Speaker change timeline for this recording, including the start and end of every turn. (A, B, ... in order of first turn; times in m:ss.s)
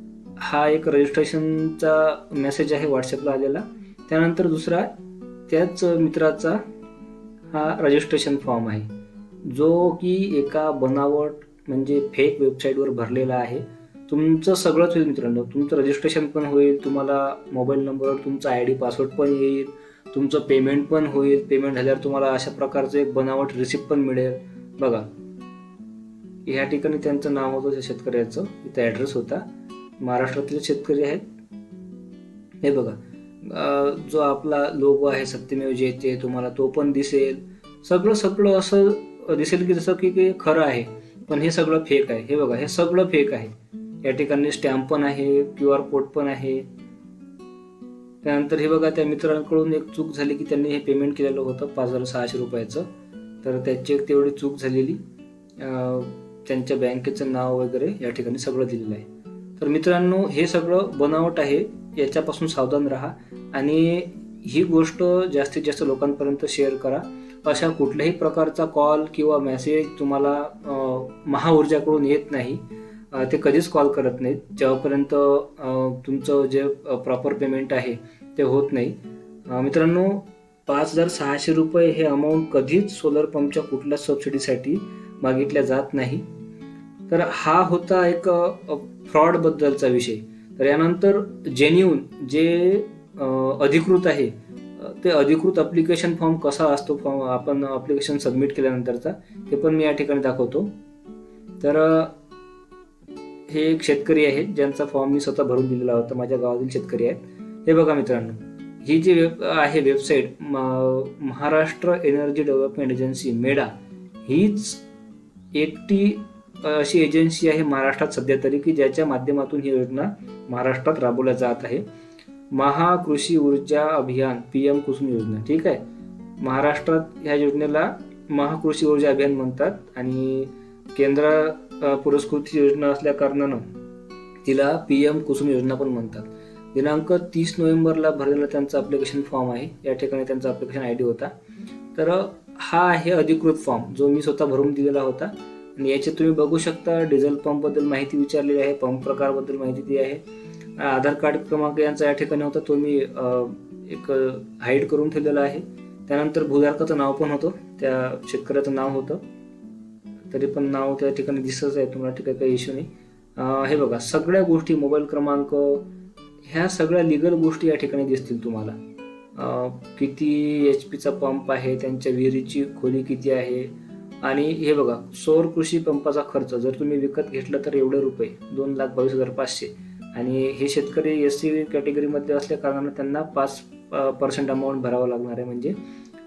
0:00.4-0:04.9 A
0:05.5-0:06.6 A
0:07.5-0:08.9 A
0:09.4-0:25.0 A
0:26.4-0:29.4 A
0:30.0-0:31.2 A
0:32.6-0:43.5 A
0:44.0-0:46.6 A
0:48.2-0:52.9 A
0:53.4-0:55.0 A
0:55.6-0:59.0 A
0:59.6-1:12.6 A
1:13.1-1:19.0 A
1:19.5-1:26.2 A
1:27.1-1:40.7 A
1:41.6-1:42.1 A
1:43.5-1:53.7 A
1:54.2-1:54.8 A
1:55.5-2:01.8 A
2:02.5-2:05.8 A
2:06.4-2:13.6 A
2:14.4-2:21.3 A
2:21.9-2:30.2 A
2:30.8-2:39.2 A
2:40.3-2:45.8 A
2:46.4-2:48.8 A
2:49.4-2:53.7 A
2:54.2-3:05.8 A